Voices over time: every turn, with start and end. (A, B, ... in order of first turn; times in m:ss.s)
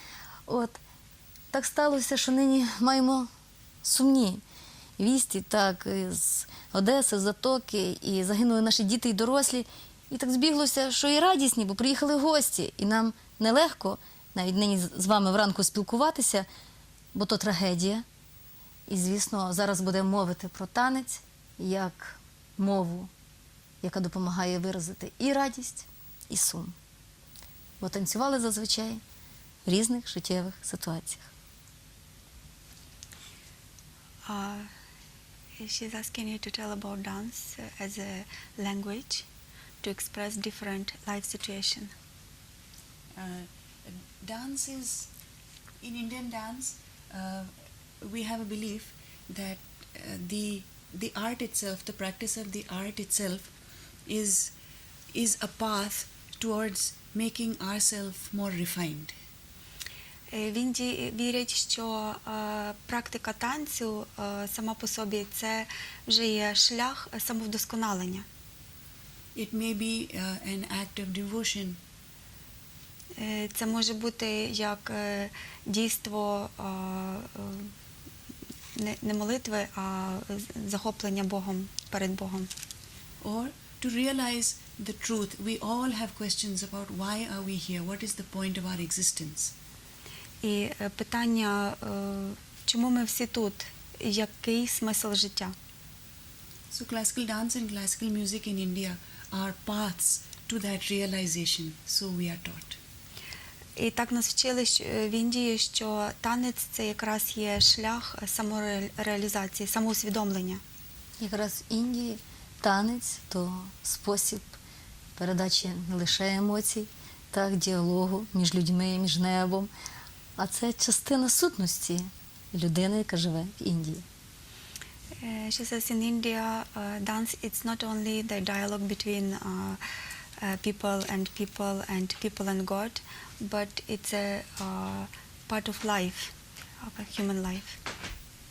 0:00.5-0:00.8 A
0:01.5-0:03.3 A
0:03.8-0:04.4 A
0:05.0-0:16.5 A
0:17.1-0:18.0 A
0:18.9-0:23.1 A
0:23.8-0:26.8 A
0:27.8-0:29.0 A
0:29.7-0:31.3 A
0:34.2-0:34.7 B
0:35.6-0:39.3 B
0:39.8-0:41.9 B
0:43.2-0:45.1 C
0:45.8-0:53.5 C
0:54.1-0:54.5 C
0:55.1-0:59.1 C
1:00.3-1:08.3 B
1:09.4-1:11.8 C
1:13.2-1:17.7 B
1:18.8-1:22.5 B
1:23.2-1:29.5 C
1:30.4-1:35.5 B
1:36.7-1:42.8 C
1:43.8-1:50.6 B
1:51.2-1:54.6 A
1:55.2-1:59.7 A
2:00.4-2:04.0 A
2:05.2-2:09.8 B
2:10.4-2:17.8 B